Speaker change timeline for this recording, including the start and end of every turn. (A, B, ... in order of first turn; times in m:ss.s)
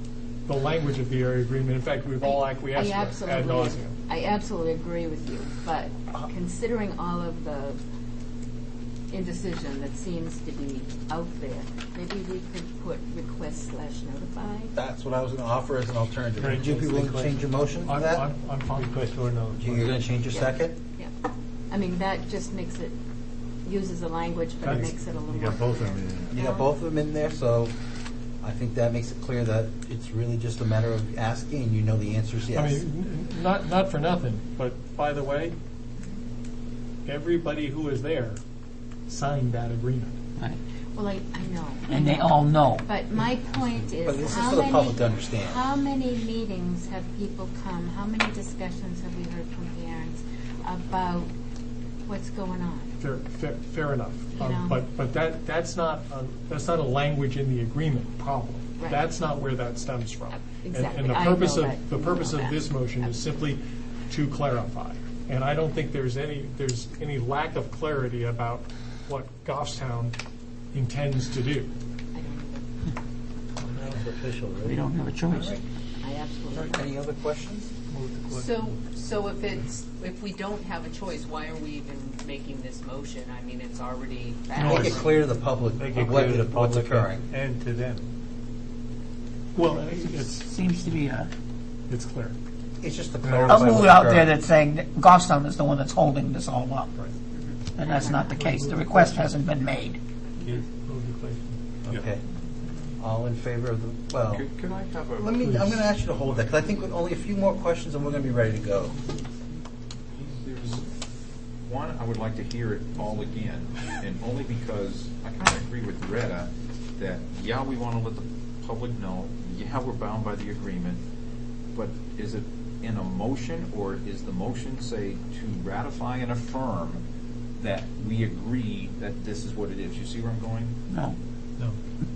0:00.5-0:04.0 A
0:02.2-0:07.8 B
0:09.1-0:14.7 B
0:14.8-0:18.3 C
0:16.4-0:16.7 A
0:16.4-0:17.5 D
0:17.8-0:18.9 A
0:18.7-0:20.0 D
0:19.6-0:20.8 C
0:20.3-0:21.1 B
0:21.7-0:23.0 B
0:23.6-0:26.7 B
0:24.6-0:26.3 D
0:26.3-0:27.7 C
0:28.4-0:32.8 C
0:32.5-0:35.6 A
0:37.1-0:38.4 A
0:39.1-0:40.2 A
0:41.0-0:51.3 B
0:41.9-0:42.8 E
0:44.0-0:45.6 C
0:52.0-0:53.0 B
0:53.0-1:10.2 A
0:54.3-0:54.8 B
0:58.8-0:59.0 B
1:00.4-1:03.2 B
1:10.7-1:11.7 A
1:12.1-1:12.7 B
1:13.7-1:14.8 D
1:13.8-1:14.8 C
1:14.6-1:15.6 E
1:15.3-1:15.6 C
1:16.0-1:16.9 B
1:16.5-1:17.7 C
1:17.9-1:18.8 D
1:18.4-1:25.3 F
1:19.6-1:20.8 B
1:23.8-1:24.1 B
1:24.6-1:27.2 C
1:24.6-1:25.0 D
1:25.8-1:28.0 D
1:29.6-1:30.5 A
1:29.7-1:31.3 E
1:31.9-1:32.4 A
1:32.8-1:34.3 C
1:33.2-1:33.6 D
1:33.5-1:37.2 E
1:37.8-1:40.0 E
1:37.8-1:38.4 B
1:38.4-1:39.4 D
1:40.4-1:42.1 D
1:41.9-1:42.2 C
1:43.0-1:44.4 C
1:44.3-1:45.4 G
1:45.2-1:49.0 C
1:45.4-1:45.8 D
1:46.0-1:46.5 G
1:50.2-1:50.9 G
1:51.7-2:01.0 G
2:01.8-2:07.0 G
2:07.6-2:10.8 G
2:10.9-2:11.2 E